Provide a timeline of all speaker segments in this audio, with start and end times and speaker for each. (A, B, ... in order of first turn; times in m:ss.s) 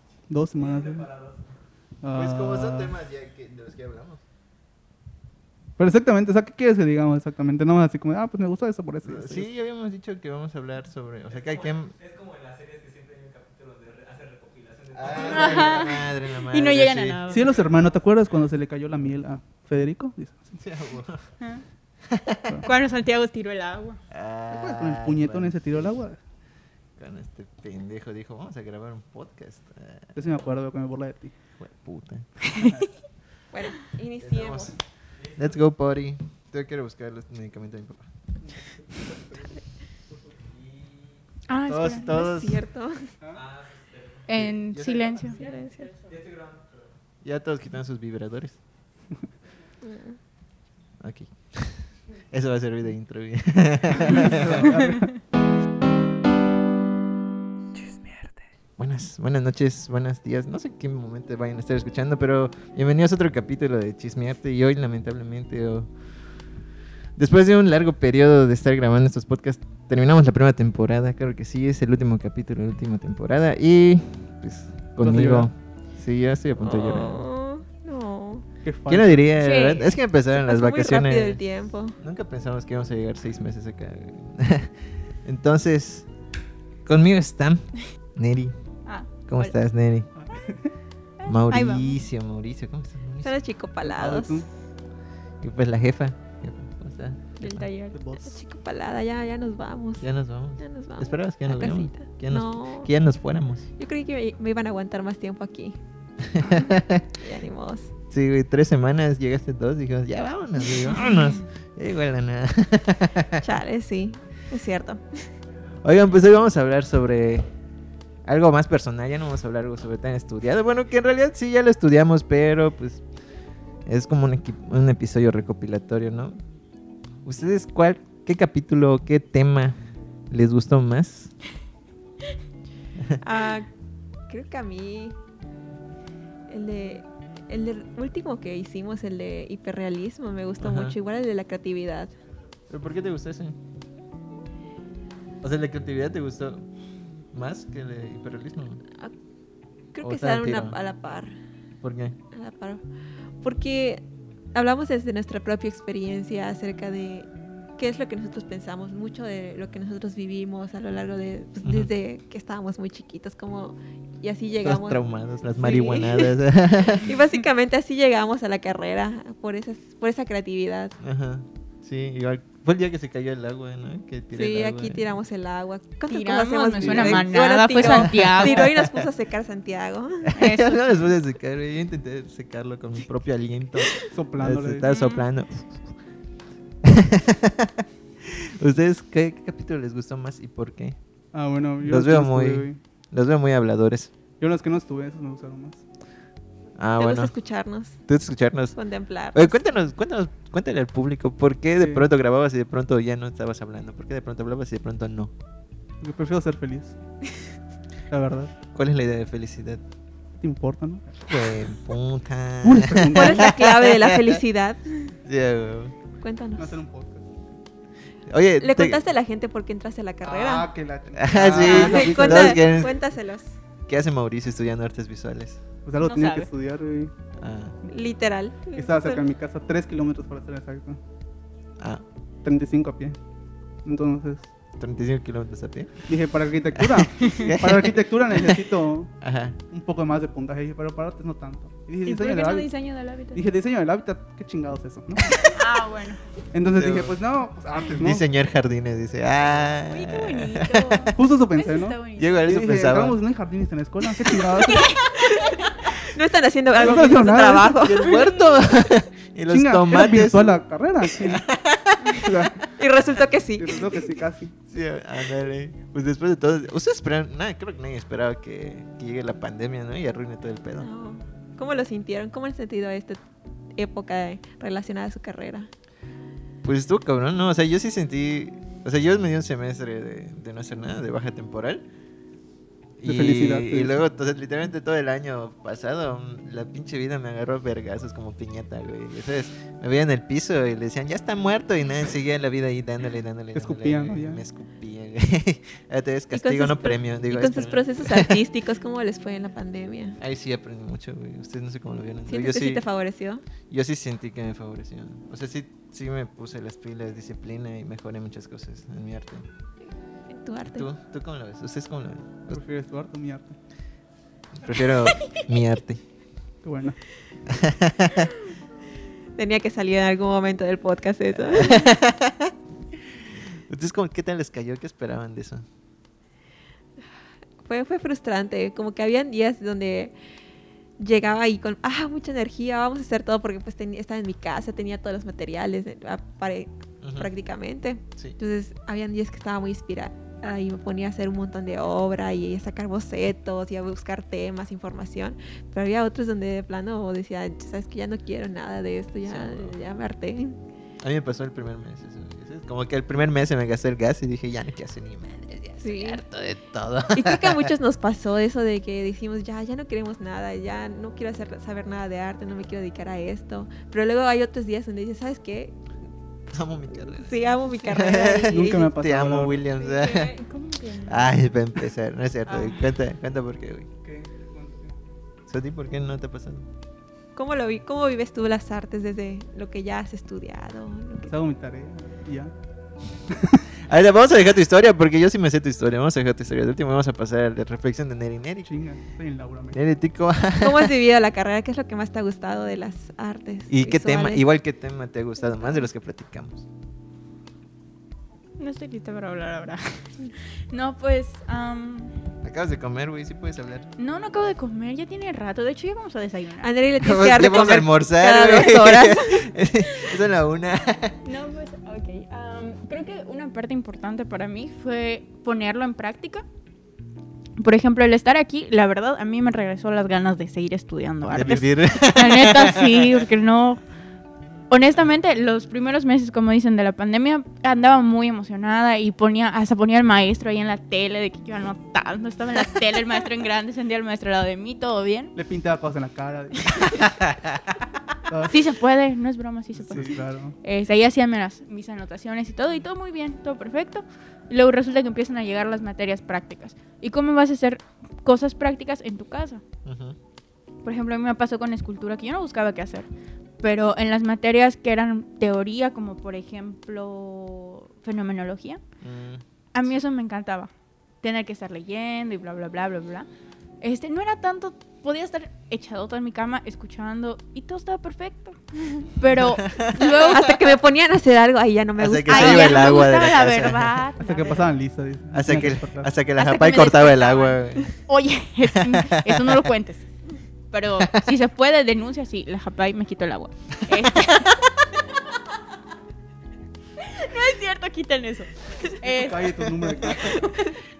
0:00.3-0:01.1 A
0:00.6-0:01.4 B
0:02.0-0:02.9 A
0:02.1-0:04.2 C
0:05.8-0:09.5 A
0:09.0-0:11.9 C
0:12.0-0:15.2 B
0:14.9-0:17.2 C
0:15.1-0:17.5 D
0:17.3-0:20.6 A
0:20.6-0:21.2 C
0:22.1-0:22.6 C
0:22.6-0:24.0 D
0:24.1-0:25.8 C
0:24.5-0:26.2 A
0:27.0-0:30.1 C
0:30.1-0:31.3 A
0:31.6-0:32.3 C
0:32.4-0:32.9 D
0:32.6-0:32.9 A
0:33.5-0:34.7 E
0:34.2-0:34.7 C
0:35.3-0:38.1 C
0:41.5-0:42.4 D
0:41.7-0:42.6 C
0:42.1-0:43.1 E
0:44.3-0:45.5 D
0:44.3-0:45.2 C
0:45.4-0:45.9 E
0:47.2-0:48.6 C
0:49.8-0:50.2 E
0:51.0-0:54.8 C
0:54.1-0:55.1 A
0:58.8-1:05.9 C
1:07.2-1:17.2 C
1:15.0-1:15.5 A
1:16.6-1:18.5 E
1:18.6-1:19.3 A
1:18.9-1:21.4 C
1:19.4-1:19.9 D
1:20.3-1:22.0 E
1:22.0-1:26.1 C
1:26.8-1:28.5 C
1:28.8-1:29.5 D
1:29.3-1:30.1 C
1:30.2-1:30.7 A
1:31.2-1:32.0 D
1:31.2-1:33.4 C
1:33.2-1:34.4 E
1:33.8-1:34.5 A
1:35.4-1:37.6 C
1:37.4-1:38.0 D
1:37.9-1:38.4 A
1:38.2-1:40.0 E
1:40.0-1:43.7 C
1:40.6-1:42.9 E
1:43.8-1:45.8 E
1:46.2-1:47.1 C
1:47.2-1:47.9 E
1:48.1-1:53.4 C
1:53.4-1:55.2 E
1:55.8-1:57.4 C
1:58.2-2:03.0 C
2:03.8-2:06.4 C
2:07.2-2:09.8 C
2:10.3-2:11.3 C
2:13.2-2:13.7 E
2:14.3-2:15.2 E
2:16.5-2:22.1 E
2:20.6-2:21.0 C
2:22.7-2:23.6 C
2:25.4-2:26.6 C
2:27.3-2:28.8 C
2:29.9-2:31.3 E
2:30.0-2:30.8 C
2:31.8-2:32.2 C
2:32.3-2:32.8 E
2:33.4-2:45.0 E
2:41.6-2:41.9 C
2:44.6-2:47.2 C
2:45.6-2:46.3 E
2:46.9-2:51.0 E
2:51.0-2:55.1 C
2:54.3-3:00.3 E
2:56.1-2:58.6 D
2:56.8-2:57.2 A
2:57.8-2:59.1 C
3:00.2-3:05.9 C
3:00.3-3:00.7 D
3:04.1-3:04.9 A
3:04.8-3:05.2 D
3:06.8-3:11.0 C
3:11.3-3:12.8 A
3:11.8-3:14.1 C
3:14.4-3:15.8 A
3:16.8-3:17.3 C
3:17.0-3:18.0 E
3:18.1-3:18.8 C
3:18.7-3:19.6 E
3:19.3-3:25.3 C
3:21.8-3:22.0 A
3:26.0-3:26.9 A
3:28.1-3:28.5 A
3:28.7-3:29.8 C
3:30.4-3:31.2 A
3:31.3-3:34.4 C
3:32.6-3:33.5 A
3:33.1-3:35.1 E
3:35.2-3:35.9 C
3:36.2-3:36.8 E
3:36.6-3:37.4 A
3:38.3-3:39.0 C
3:38.6-3:40.7 E
3:40.2-3:42.8 A
3:41.2-3:43.0 C
3:41.6-3:43.5 E
3:43.9-3:45.6 C
3:45.8-3:47.1 A
3:46.0-3:46.5 D
3:47.4-3:47.8 C
3:47.8-3:49.3 E
3:48.7-3:51.0 A
3:51.8-3:52.0 C
3:52.4-3:53.2 A
3:53.8-3:54.5 A
3:54.8-3:56.0 C
3:56.1-3:59.1 A
3:56.8-3:58.6 C
3:57.2-3:57.5 D
3:59.2-3:59.6 C
3:59.7-4:02.7 A
4:02.0-4:03.5 D
4:03.3-4:05.6 A
4:05.3-4:06.2 D
4:06.5-4:08.2 A
4:06.7-4:07.2 C
4:07.9-4:11.1 C
4:09.8-4:12.5 D
4:11.1-4:15.0 A
4:12.2-4:13.2 C
4:14.7-4:14.9 D
4:15.9-4:18.2 E
4:16.8-4:17.8 A
4:17.7-4:20.6 C
4:19.5-4:21.4 A
4:21.1-4:22.5 C
4:22.2-4:22.6 A
4:22.7-4:24.0 E
4:23.6-4:24.5 A
4:24.6-4:30.9 C
4:30.8-4:33.2 E
4:33.8-4:35.7 E
4:36.6-4:41.8 C
4:43.0-4:58.4 C
4:43.0-4:44.0 A
4:53.5-4:54.4 A
4:56.3-5:00.2 E
5:00.2-5:02.9 C
5:02.3-5:03.4 E
5:03.7-5:09.4 C
5:10.3-5:10.9 E
5:10.7-5:12.6 C
5:12.5-5:13.6 A
5:14.5-5:16.0 C
5:16.6-5:17.0 A
5:17.5-5:18.3 C
5:19.4-5:21.9 E
5:21.4-5:22.5 C
5:23.7-5:25.6 C
5:27.6-5:30.1 E
5:31.0-5:50.6 E
5:37.0-5:37.3 C
5:49.2-5:49.7 C
5:51.0-5:57.7 C
5:55.8-5:56.2 E
5:57.1-6:05.8 E
6:06.5-6:10.3 C
6:07.1-6:08.9 E
6:08.5-6:09.6 A
6:09.8-6:11.4 D
6:11.0-6:13.9 C
6:12.5-6:12.8 D
6:14.0-6:15.0 A
6:15.5-6:16.7 C
6:17.3-6:21.3 E
6:21.2-6:22.5 A
6:23.3-6:23.6 A
6:23.8-6:28.7 C
6:28.6-6:29.8 A
6:29.7-6:30.9 C
6:30.6-6:34.4 E
6:33.7-6:36.6 C
6:38.6-6:42.1 D
6:42.4-6:43.9 C
6:44.0-6:46.7 D
6:46.6-6:49.5 E
6:47.0-6:51.2 C
6:51.2-6:56.4 D
6:57.6-7:03.8 D
7:01.3-7:03.2 C
7:04.7-7:15.3 D
7:15.3-7:17.0 A
7:18.3-7:18.6 A
7:18.5-7:29.6 D
7:19.8-7:20.5 A
7:29.8-7:30.2 C
7:30.8-7:33.1 D
7:33.6-7:38.8 D
7:39.0-7:39.4 C
7:39.7-7:40.7 D
7:41.2-7:43.3 D
7:43.8-7:50.6 D
7:49.6-7:50.4 C
7:50.1-7:53.1 E
7:52.0-7:54.0 C
7:52.3-7:54.7 D
7:54.2-7:56.1 A
7:55.3-7:57.9 C
7:56.4-8:00.1 D
7:58.7-7:59.6 C
8:00.7-8:04.6 D
8:01.0-8:01.3 C
8:07.0-8:10.7 D
8:09.1-8:10.5 A